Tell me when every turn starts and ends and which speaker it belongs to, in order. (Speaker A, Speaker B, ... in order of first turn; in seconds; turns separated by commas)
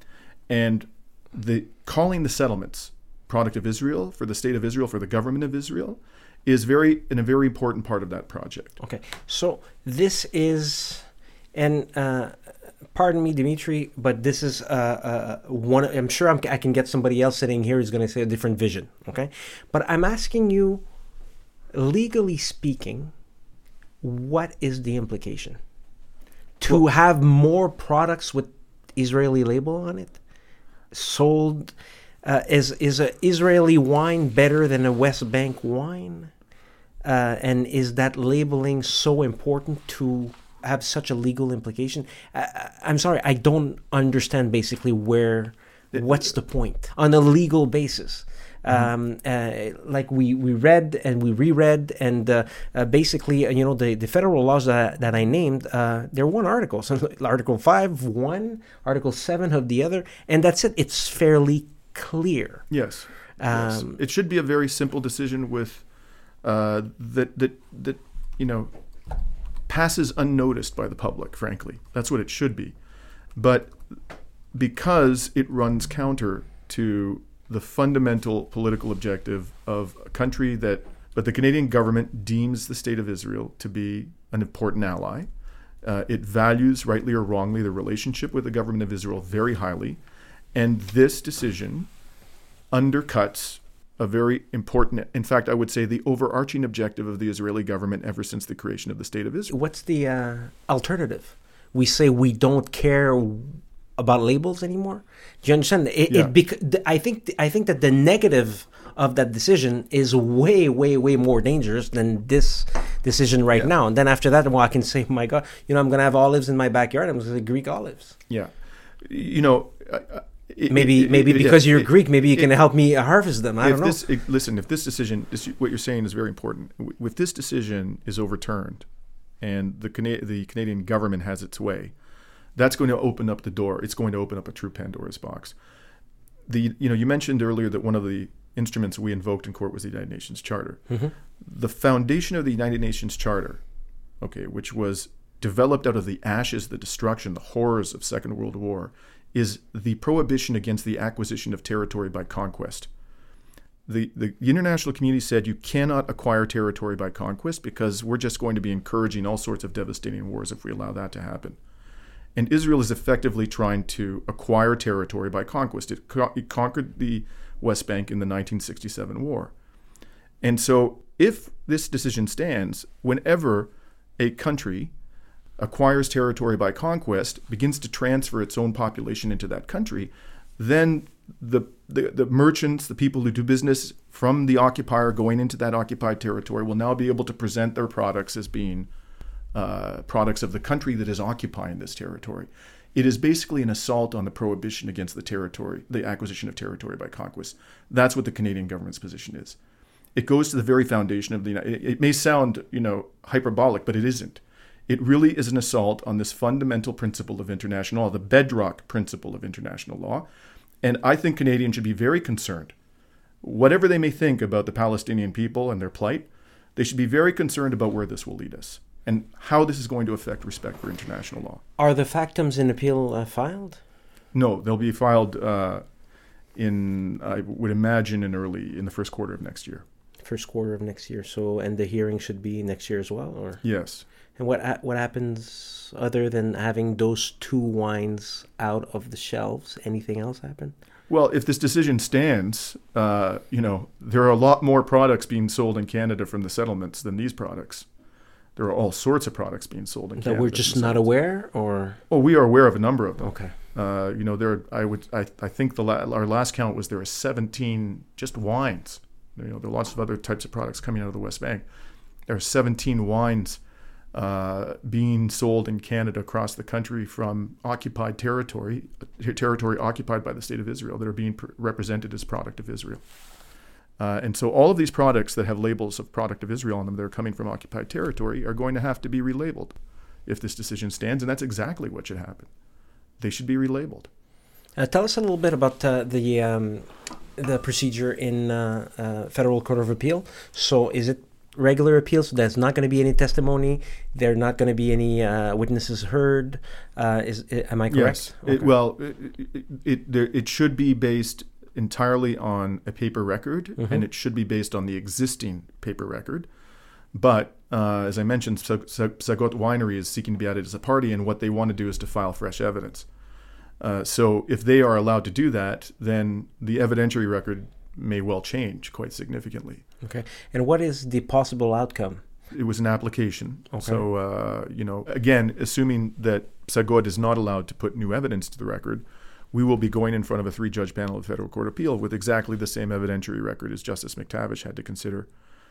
Speaker A: 0.5-8.8, Speaker B: 8.8-12.4, Speaker B: 12.9-20.8, Speaker B: 21.7-23.1, Speaker B: 24.0-25.6, Speaker B: 26.6-30.2, Speaker B: 30.9-36.3, Speaker B: 37.0-62.7, Speaker A: 62.7-65.8, Speaker B: 63.4-64.0, Speaker A: 66.4-68.7, Speaker A: 69.7-72.8, Speaker A: 73.3-73.8, Speaker A: 74.5-85.3, Speaker A: 85.8-90.0, Speaker A: 90.5-91.9, Speaker A: 92.7-99.5, Speaker B: 99.5-118.2, Speaker A: 118.3-122.5, Speaker B: 120.7-124.0, Speaker A: 123.6-128.9, Speaker A: 129.4-131.9, Speaker A: 132.6-135.6, Speaker A: 136.5-140.8, Speaker B: 140.9-141.1, Speaker A: 141.4-143.6, Speaker A: 144.2-152.9, Speaker A: 153.9-161.6, Speaker A: 162.3-169.5, Speaker A: 170.4-174.9, Speaker A: 175.6-188.9, Speaker A: 189.5-199.6, Speaker A: 200.2-210.3, Speaker A: 210.8-212.7, Speaker A: 213.4-221.6, Speaker B: 221.8-223.8, Speaker A: 224.3-225.8, Speaker A: 226.6-229.8, Speaker B: 230.2-233.6, Speaker A: 233.6-234.1, Speaker B: 234.3-240.8, Speaker A: 241.1-247.9, Speaker A: 248.6-251.1, Speaker B: 250.2-252.0, Speaker A: 252.1-261.7, Speaker B: 253.2-253.5, Speaker A: 262.3-263.6, Speaker A: 264.1-273.0, Speaker A: 274.0-282.5, Speaker A: 283.2-284.1, Speaker B: 284.8-298.7, Speaker A: 297.9-306.5, Speaker B: 303.8-304.0, Speaker A: 307.1-313.1, Speaker A: 313.8-319.8, Speaker B: 320.0-322.2, Speaker A: 322.5-335.3, Speaker B: 323.7-324.0